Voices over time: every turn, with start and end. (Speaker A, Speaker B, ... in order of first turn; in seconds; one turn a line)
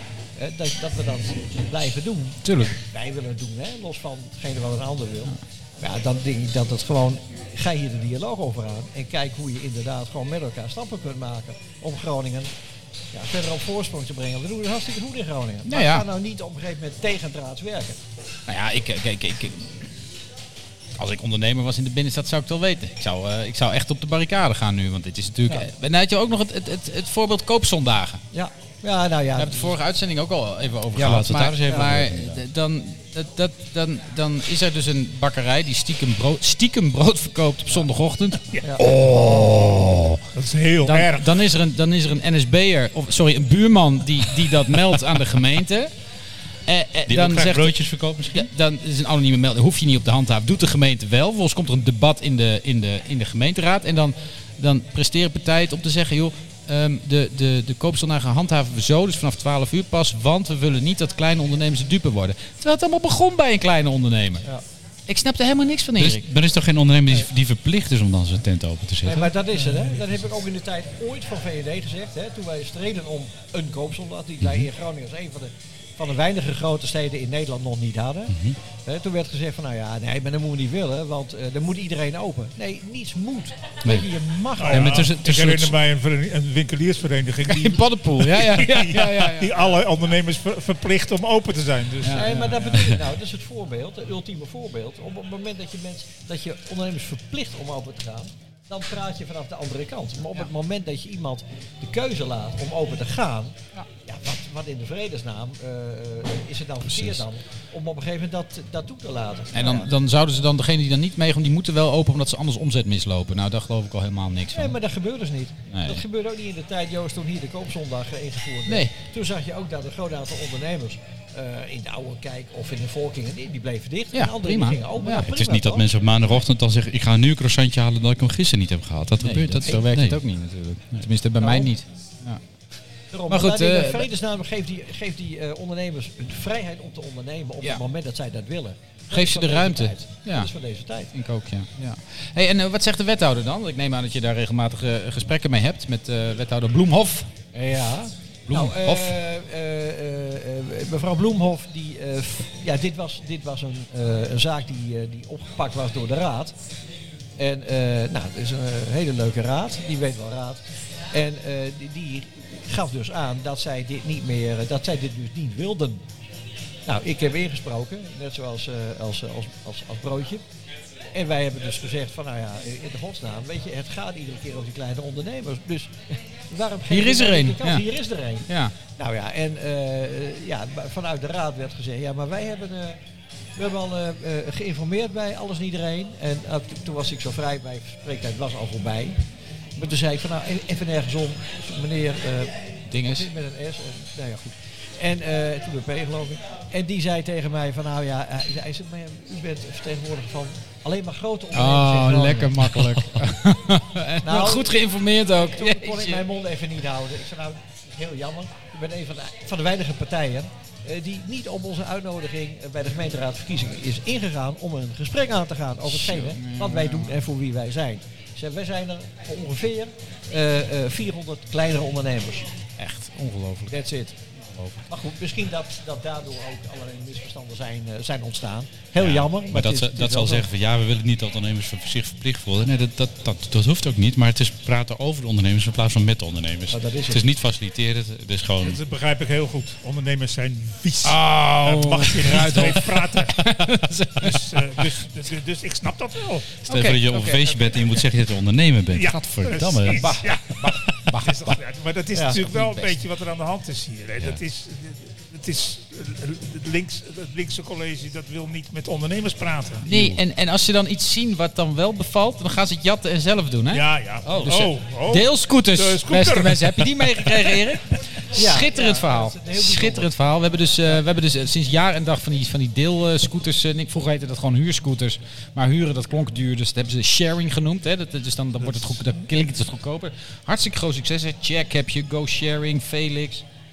Speaker A: 0.4-12.5
Speaker B: 2.5-2.8
Speaker A: 13.1-18.0
Speaker B: 15.7-16.1
Speaker B: 18.5-19.8
Speaker B: 21.0-28.2
Speaker A: 28.3-29.7
Speaker B: 29.4-38.5
Speaker C: 30.9-32.4
Speaker A: 38.6-39.5
Speaker C: 39.0-40.0
Speaker D: 40.2-41.4
Speaker B: 40.8-45.9
Speaker B: 46.7-64.5
Speaker C: 47.1-48.5
Speaker B: 65.1-66.2
Speaker C: 66.0-69.3
Speaker A: 69.0-85.2
Speaker C: 78.3-78.6
Speaker C: 83.8-84.1
Speaker D: 84.6-92.4
Speaker C: 84.7-85.8
Speaker B: 87.5-89.7
Speaker B: 92.0-92.9
Speaker A: 92.1-109.9
Speaker B: 109.5-114.8
Speaker A: 114.5-126.0
Speaker B: 115.7-116.0
Speaker B: 118.7-118.9
Speaker B: 124.1-125.3
Speaker C: 125.2-130.2
Speaker B: 129.2-132.4
Speaker A: 131.4-131.7
Speaker A: 133.1-141.1
Speaker B: 133.3-134.1
Speaker B: 139.1-140.5
Speaker B: 141.1-147.3
Speaker A: 147.5-156.6
Speaker B: 148.5-149.2
Speaker A: 157.4-166.1
Speaker A: 166.8-170.4
Speaker A: 171.1-183.0
Speaker B: 176.9-177.9
Speaker B: 178.5-178.7
Speaker A: 183.6-189.2
Speaker A: 189.8-202.7
Speaker B: 192.9-193.3
Speaker B: 201.5-206.3
Speaker A: 204.2-204.8
Speaker A: 205.3-222.5
Speaker B: 215.9-217.2
Speaker B: 222.8-223.8
Speaker A: 223.7-224.2
Speaker B: 224.5-224.8
Speaker A: 224.9-230.5
Speaker C: 229.0-238.8
Speaker A: 236.7-237.2
Speaker D: 238.6-243.6
Speaker B: 241.0-244.4
Speaker D: 244.2-246.5
Speaker C: 246.7-250.2
Speaker B: 246.7-247.7
Speaker D: 248.9-259.9
Speaker B: 249.7-251.6
Speaker B: 252.2-252.9
Speaker B: 259.9-283.4
Speaker C: 259.9-260.2
Speaker D: 263.7-267.1
Speaker C: 264.3-264.6
Speaker A: 268.3-270.1